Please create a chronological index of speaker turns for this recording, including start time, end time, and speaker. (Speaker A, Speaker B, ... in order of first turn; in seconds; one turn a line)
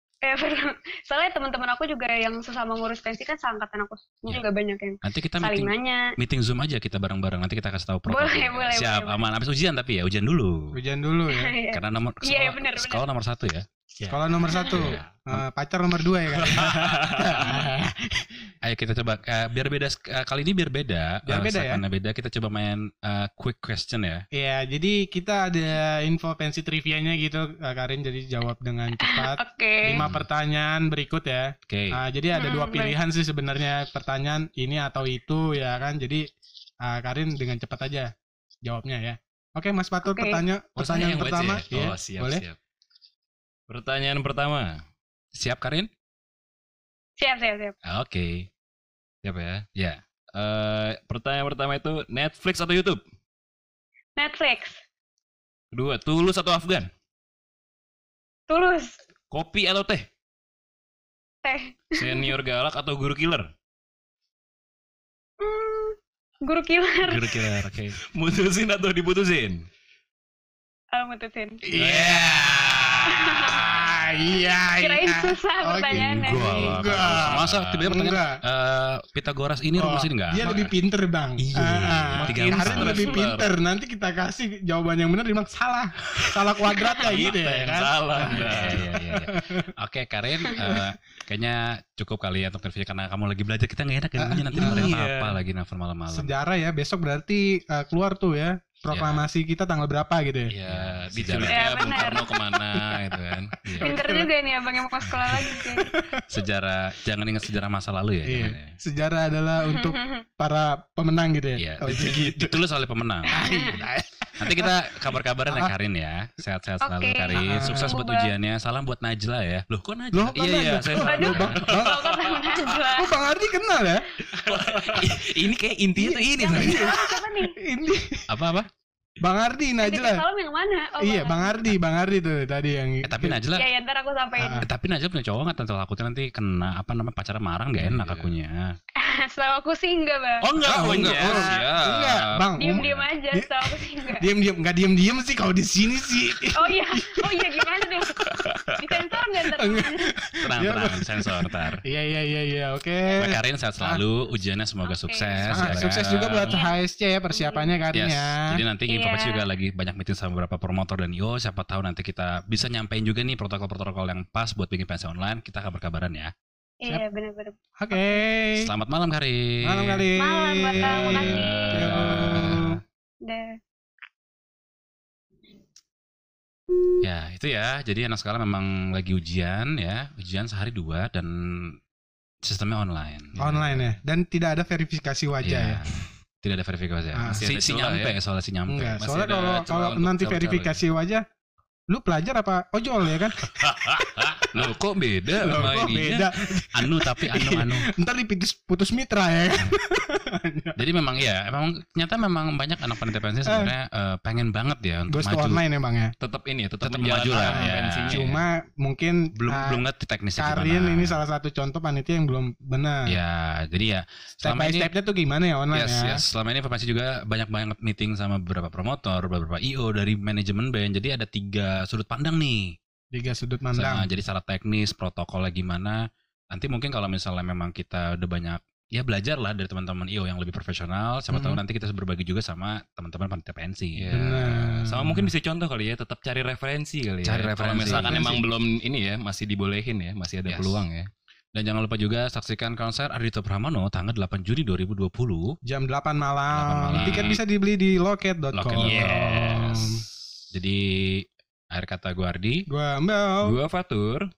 Speaker A: 0.2-6.0
Speaker B: 5.0-10.5
Speaker A: 8.1-9.2
Speaker C: 10.7-11.5
Speaker A: 11.3-13.0
Speaker B: 11.7-15.4
Speaker C: 14.1-18.5
Speaker A: 14.5-14.8
Speaker B: 16.5-17.5
Speaker D: 16.6-17.2
Speaker B: 18.6-24.2
Speaker C: 21.2-21.8
Speaker C: 24.3-36.2
Speaker A: 29.0-30.0
Speaker B: 29.9-30.2
Speaker B: 31.7-32.0
Speaker A: 32.3-32.9
Speaker C: 36.8-38.1
Speaker C: 38.6-42.4
Speaker A: 40.0-40.4
Speaker D: 40.8-42.6
Speaker D: 43.7-44.8
Speaker B: 45.3-45.9
Speaker A: 47.2-47.7
Speaker B: 47.9-48.5
Speaker D: 49.2-49.6
Speaker B: 49.8-50.0
Speaker D: 50.3-53.0
Speaker A: 54.2-54.8
Speaker D: 55.7-56.9
Speaker A: 58.5-59.0
Speaker D: 59.3-60.1
Speaker A: 61.4-62.3
Speaker D: 61.9-63.5
Speaker A: 65.4-67.3
Speaker B: 67.0-68.0
Speaker D: 68.0-69.7
Speaker A: 70.9-71.7
Speaker C: 71.7-78.4
Speaker D: 71.7-73.9
Speaker A: 73.1-73.7
Speaker A: 74.8-76.8
Speaker B: 75.9-80.7
Speaker D: 76.9-78.0
Speaker C: 79.8-89.7
Speaker B: 81.4-83.1
Speaker D: 82.2-83.5
Speaker D: 86.2-88.9
Speaker B: 88.2-96.3
Speaker C: 90.6-90.9
Speaker C: 94.2-94.9
Speaker D: 94.5-95.4
Speaker C: 96.1-100.5
Speaker B: 98.9-99.2
Speaker D: 100.5-103.6
Speaker B: 100.6-101.8
Speaker A: 101.5-102.5
Speaker B: 103.6-103.9
Speaker C: 103.8-104.3
Speaker A: 103.8-105.9
Speaker C: 105.4-106.2
Speaker B: 106.3-108.7
Speaker C: 108.2-112.6
Speaker A: 109.6-110.2
Speaker B: 111.6-113.5
Speaker C: 113.3-114.7
Speaker A: 113.4-113.8
Speaker B: 114.4-120.5
Speaker C: 115.5-115.7
Speaker A: 116.8-118.3
Speaker C: 117.3-117.9
Speaker C: 120.1-122.0
Speaker D: 120.3-122.8
Speaker A: 121.0-123.1
Speaker C: 122.5-124.1
Speaker D: 124.3-127.0
Speaker C: 126.0-128.2
Speaker A: 126.2-127.5
Speaker B: 128.3-128.7
Speaker C: 129.2-130.2
Speaker A: 129.8-131.6
Speaker C: 131.0-133.4
Speaker B: 133.0-133.7
Speaker A: 133.5-134.6
Speaker C: 134.4-134.7
Speaker B: 134.6-138.6
Speaker D: 137.8-138.3
Speaker A: 139.0-140.4
Speaker B: 140.4-141.5
Speaker C: 140.6-147.8
Speaker D: 140.8-142.5
Speaker A: 142.6-144.2
Speaker B: 142.8-143.1
Speaker A: 146.6-148.2
Speaker A: 148.8-150.1
Speaker C: 149.5-154.0
Speaker B: 150.4-151.8
Speaker B: 153.2-156.6
Speaker A: 154.8-155.8
Speaker C: 155.5-158.6
Speaker A: 156.4-156.7
Speaker A: 157.3-157.7
Speaker B: 157.9-166.3
Speaker A: 158.9-159.4
Speaker A: 166.8-168.2
Speaker C: 167.8-168.7
Speaker B: 168.6-170.1
Speaker C: 169.6-172.8
Speaker A: 170.2-171.8
Speaker B: 170.7-172.8
Speaker A: 173.2-173.6
Speaker B: 177.0-181.8
Speaker B: 182.4-183.8
Speaker C: 183.4-185.8
Speaker B: 185.4-189.0
Speaker C: 187.1-187.5
Speaker D: 187.4-188.2
Speaker C: 188.7-191.2
Speaker D: 189.0-190.8
Speaker C: 191.9-194.7
Speaker B: 193.4-194.4
Speaker D: 194.5-196.3
Speaker C: 195.4-200.8
Speaker B: 196.7-197.8
Speaker B: 200.8-205.6
Speaker C: 203.4-203.7
Speaker C: 205.1-206.1
Speaker D: 206.2-208.2
Speaker B: 206.8-208.4
Speaker C: 207.4-209.8
Speaker B: 209.3-211.2
Speaker C: 210.4-213.1
Speaker B: 213.1-214.9
Speaker C: 214.4-216.2
Speaker B: 215.7-222.7
Speaker C: 223.1-224.1
Speaker B: 223.7-226.0
Speaker B: 226.5-234.0
Speaker C: 231.3-231.6
Speaker D: 233.9-241.1
Speaker C: 234.1-235.3
Speaker B: 237.2-238.3
Speaker C: 237.8-238.4
Speaker B: 240.5-240.8
Speaker B: 241.5-245.5
Speaker C: 245.6-250.1
Speaker B: 246.5-247.4
Speaker D: 247.0-247.4
Speaker B: 248.6-249.8
Speaker D: 248.6-250.0
Speaker B: 250.5-252.6
Speaker C: 252.7-253.6
Speaker D: 253.4-254.3